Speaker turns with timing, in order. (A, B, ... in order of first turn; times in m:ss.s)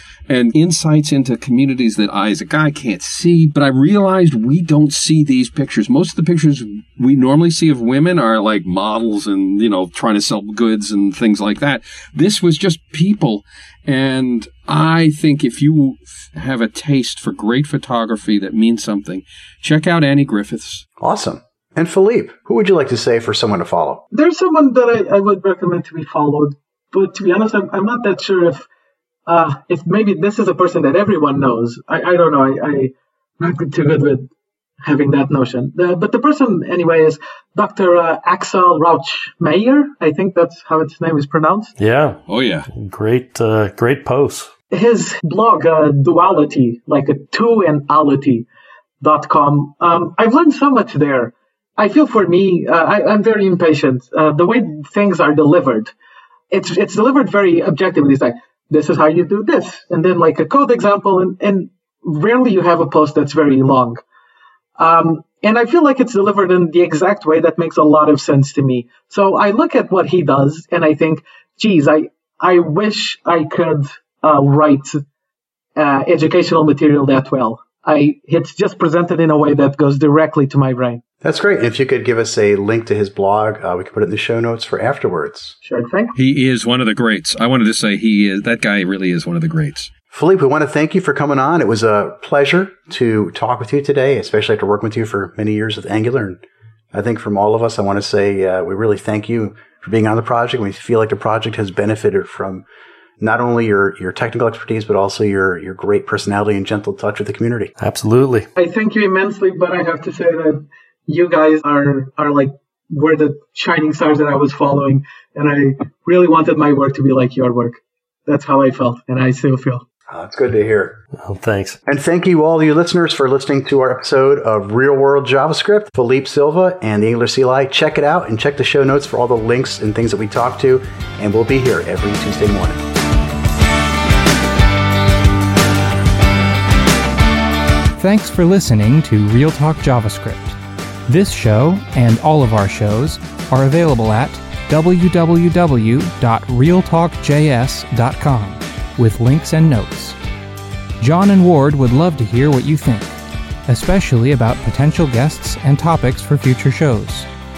0:00.3-0:20.8 A
0:21.0-0:24.0 B
0:24.1-0:28.7 C
0:29.3-0:34.3 C
0:34.8-0:41.7 C
0:41.8-0:42.2 D
0:42.3-0:42.7 A
0:42.7-0:44.5 D
0:44.7-0:48.5 C
0:49.0-0:55.9 C
0:56.5-1:04.0 C
1:04.8-1:15.0 C
1:15.8-1:21.0 C
1:21.2-1:25.6 B
1:25.6-1:26.1 C
1:26.1-1:29.9 A
1:30.1-1:36.4 B
1:36.9-1:42.6 B
1:43.2-1:47.7 B
1:47.8-1:48.5 D
1:48.6-1:59.8 C
2:00.1-2:01.0 B
2:01.2-2:01.8 D
2:01.9-2:12.8 B
2:18.0-2:20.6 E
2:21.1-2:30.2 E
2:31.0-2:33.1 E
2:33.7-2:37.3 E